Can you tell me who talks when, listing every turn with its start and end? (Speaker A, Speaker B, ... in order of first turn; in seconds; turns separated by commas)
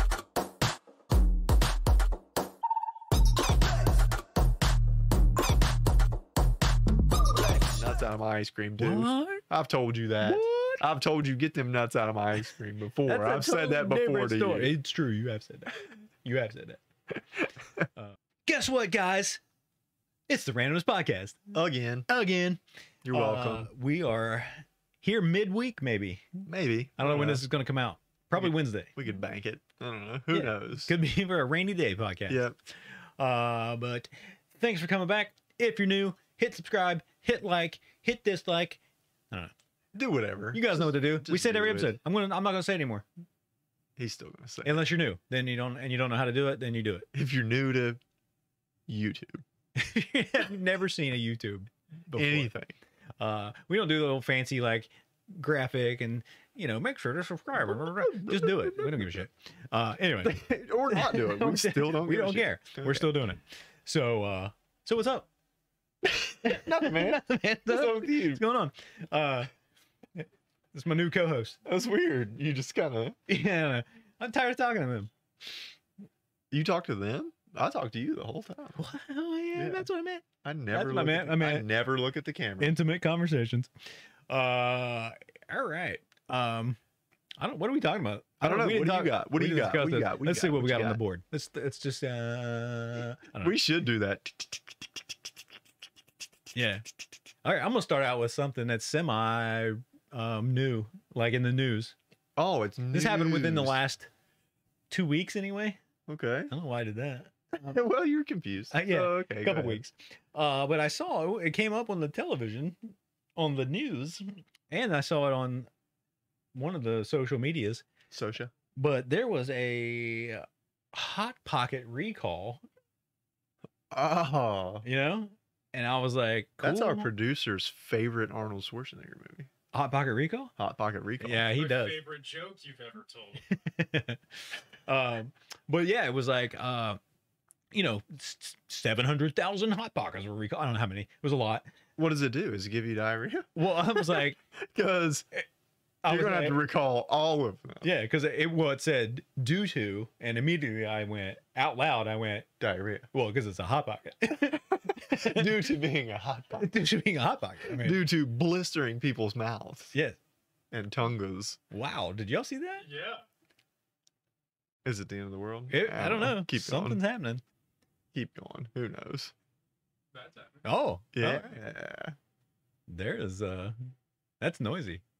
Speaker A: 7.6-14.7, Speaker B: 8.8-9.4, Speaker B: 10.2-10.8, Speaker B: 13.1-16.8, Speaker A: 17.4-17.8, Speaker B: 18.0-19.4, Speaker B: 20.3-21.5, Speaker A: 21.5-22.1, Speaker B: 22.1-26.4, Speaker A: 23.0-23.7, Speaker A: 26.4-27.4, Speaker B: 27.0-28.9, Speaker A: 28.3-30.9, Speaker B: 30.3-38.8, Speaker A: 32.3-32.5, Speaker A: 39.9-42.0, Speaker B: 40.5-43.0, Speaker A: 44.0-44.9, Speaker B: 44.6-47.1, Speaker A: 47.1-48.0, Speaker A: 48.9-49.4, Speaker B: 49.8-52.5, Speaker A: 52.1-52.7, Speaker B: 53.2-65.3, Speaker A: 57.6-59.1, Speaker A: 60.2-63.1, Speaker A: 66.0-68.4, Speaker B: 66.4-69.5, Speaker B: 70.2-71.6, Speaker A: 71.6-73.2, Speaker B: 73.3-75.1, Speaker A: 76.5-78.8, Speaker B: 78.8-81.7, Speaker A: 79.5-79.8, Speaker A: 80.4-82.8, Speaker B: 82.6-83.7, Speaker B: 84.3-86.8, Speaker B: 87.4-93.5, Speaker A: 88.4-91.0, Speaker A: 93.4-94.7, Speaker B: 96.5-96.8, Speaker B: 97.4-101.9, Speaker A: 102.4-103.8, Speaker B: 102.9-104.1, Speaker B: 104.9-105.8, Speaker A: 106.1-106.5, Speaker B: 106.5-107.8, Speaker A: 107.6-109.9, Speaker B: 108.7-115.7, Speaker B: 116.5-117.8, Speaker A: 118.1-118.5, Speaker B: 118.8-122.6, Speaker A: 123.9-124.8, Speaker B: 124.8-127.1, Speaker A: 126.6-129.5, Speaker B: 129.7-130.5, Speaker A: 130.6-131.5, Speaker B: 131.2-132.0, Speaker C: 131.5-133.4, Speaker B: 133.5-134.2, Speaker B: 134.8-137.0, Speaker B: 137.7-141.7, Speaker A: 142.0-145.3, Speaker B: 143.5-144.4, Speaker B: 146.0-146.6, Speaker A: 146.0-147.9, Speaker B: 147.8-152.5, Speaker A: 152.6-153.1, Speaker B: 153.1-155.5, Speaker A: 154.4-156.7, Speaker B: 156.6-158.0, Speaker A: 157.7-159.9, Speaker A: 160.7-161.6, Speaker B: 161.7-162.8, Speaker C: 162.8-163.2, Speaker A: 164.8-167.0, Speaker B: 165.7-167.4, Speaker A: 168.1-169.3, Speaker C: 170.1-170.6, Speaker B: 170.6-171.5, Speaker A: 171.1-172.1, Speaker B: 172.9-173.8, Speaker B: 174.4-175.0